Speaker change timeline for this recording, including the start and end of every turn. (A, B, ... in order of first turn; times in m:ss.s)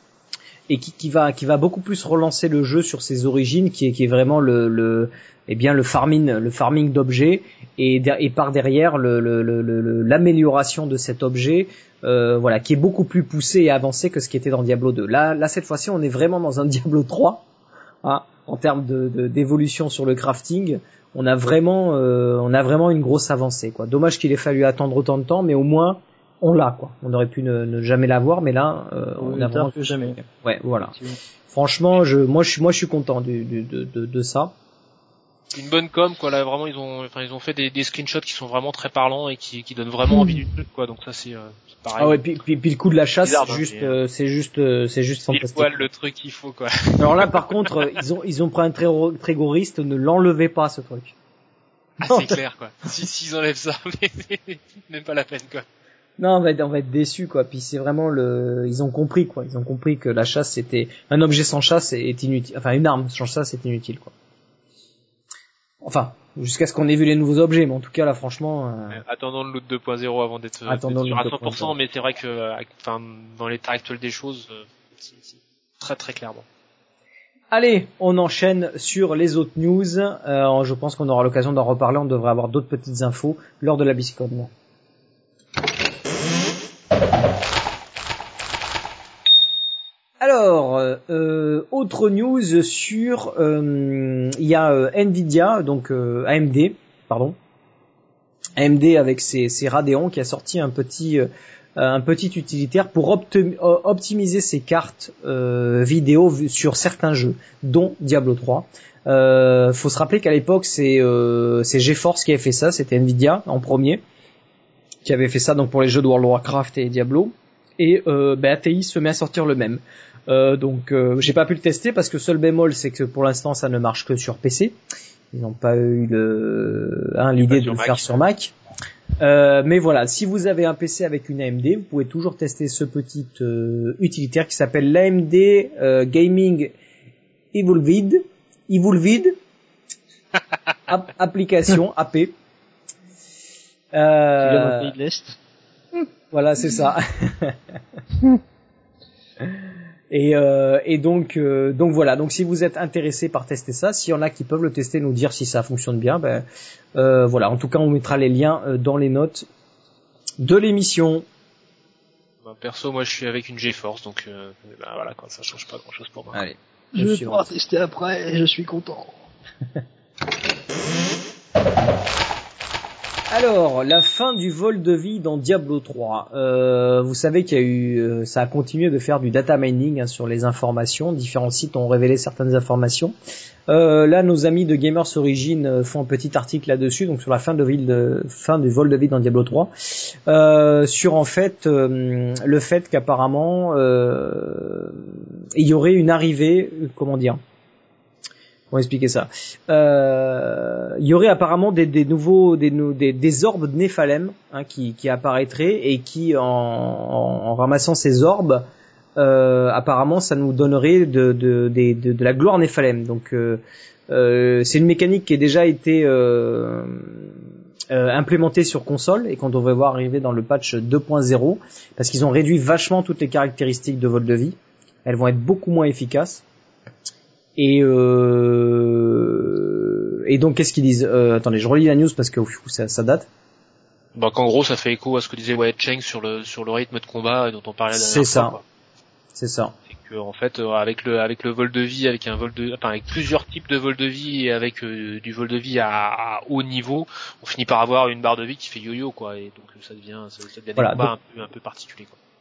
0:00.7-0:17.4 A
0:18.0-0:31.0 A
0:29.2-0:30.2 B
0:30.9-0:31.2 B
0:31.5-0:34.5 A
0:35.5-0:42.2 C
0:40.1-0:40.4 B
0:42.0-0:45.8 A
0:43.2-0:44.0 C
0:45.3-0:47.9 C
0:47.0-0:51.1 A
0:52.0-0:55.6 C
0:56.2-1:04.1 A
1:05.8-1:09.0 A
1:08.9-1:16.4 C
1:10.7-1:11.7 A
1:17.5-1:24.5 A
1:30.2-1:37.4 A
1:38.6-1:54.0 A
1:55.0-2:04.8 A
2:05.3-2:08.5 A
2:07.4-2:08.2 C
2:09.2-2:16.7 A
2:17.5-2:19.4 A
2:20.9-2:22.3 A
2:23.9-2:24.9 A
2:24.4-2:25.4 B
2:26.3-2:27.6 A
2:30.1-2:39.5 A
2:40.4-2:41.2 A
2:42.4-2:46.4 C
2:46.3-2:47.5 A
2:46.9-2:49.2 B
2:53.3-3:03.1 A
3:03.7-3:17.4 A
3:18.7-3:37.3 A
3:37.9-3:46.4 A
3:47.6-3:53.3 A
3:54.2-3:58.6 C
3:57.9-3:58.6 A
3:59.4-3:59.7 A
3:59.9-4:12.2 C
4:10.8-4:11.1 A